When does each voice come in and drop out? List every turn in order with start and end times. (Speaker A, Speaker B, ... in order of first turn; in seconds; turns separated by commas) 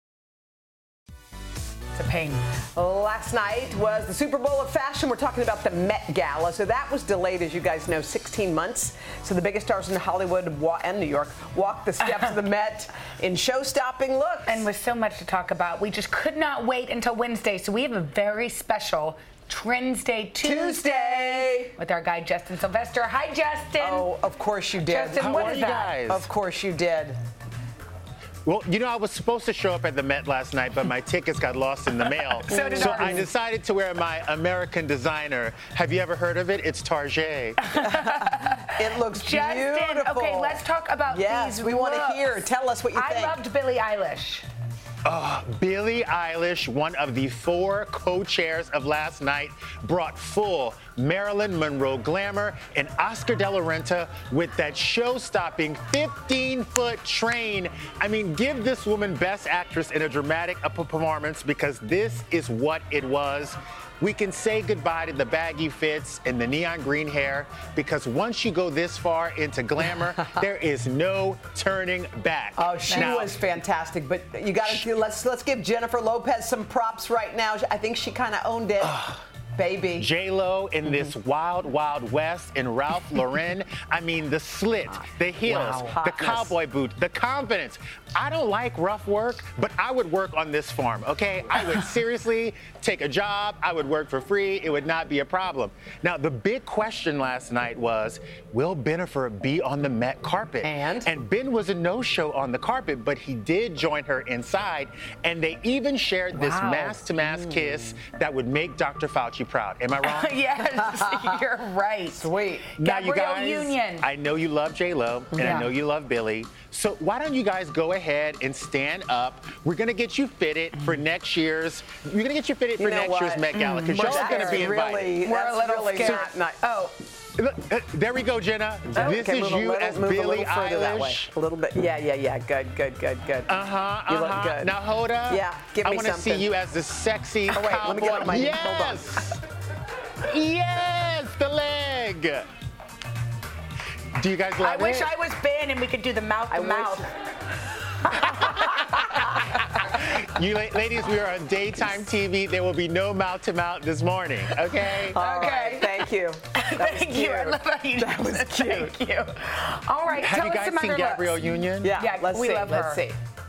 Speaker A: 2.0-2.4, Speaker B: 2.7-14.6, Speaker A: 14.5-24.1, Speaker B: 20.4-21.8, Speaker B: 23.8-27.2, Speaker A: 24.9-26.0, Speaker C: 25.2-26.3, Speaker C: 28.5-37.8, Speaker A: 32.5-33.3, Speaker B: 32.5-33.1, Speaker A: 37.7-44.5, Speaker B: 37.9-43.4, Speaker C: 45.0-73.4, Speaker B: 72.6-80.1, Speaker A: 72.9-73.3, Speaker C: 78.8-79.2, Speaker C: 80.0-110.3, Speaker B: 84.9-86.5, Speaker B: 100.6-101.1, Speaker A: 106.3-107.0, Speaker B: 107.2-108.0, Speaker A: 110.0-114.1, Speaker B: 110.8-111.4, Speaker B: 112.1-112.7, Speaker C: 112.8-125.2, Speaker A: 115.4-115.7, Speaker B: 122.8-126.6, Speaker A: 123.5-126.9, Speaker C: 126.0-126.3, Speaker C: 127.4-131.3, Speaker B: 128.9-134.8, Speaker C: 133.5-139.4, Speaker B: 135.3-136.5, Speaker B: 137.5-139.0, Speaker C: 140.2-142.5, Speaker C: 144.1-145.1, Speaker A: 144.6-147.1, Speaker B: 146.5-147.0, Speaker A: 148.2-148.7, Speaker B: 148.4-149.2, Speaker C: 149.5-155.2, Speaker B: 155.1-158.9, Speaker A: 155.1-163.0, Speaker C: 160.2-162.0, Speaker B: 161.8-163.2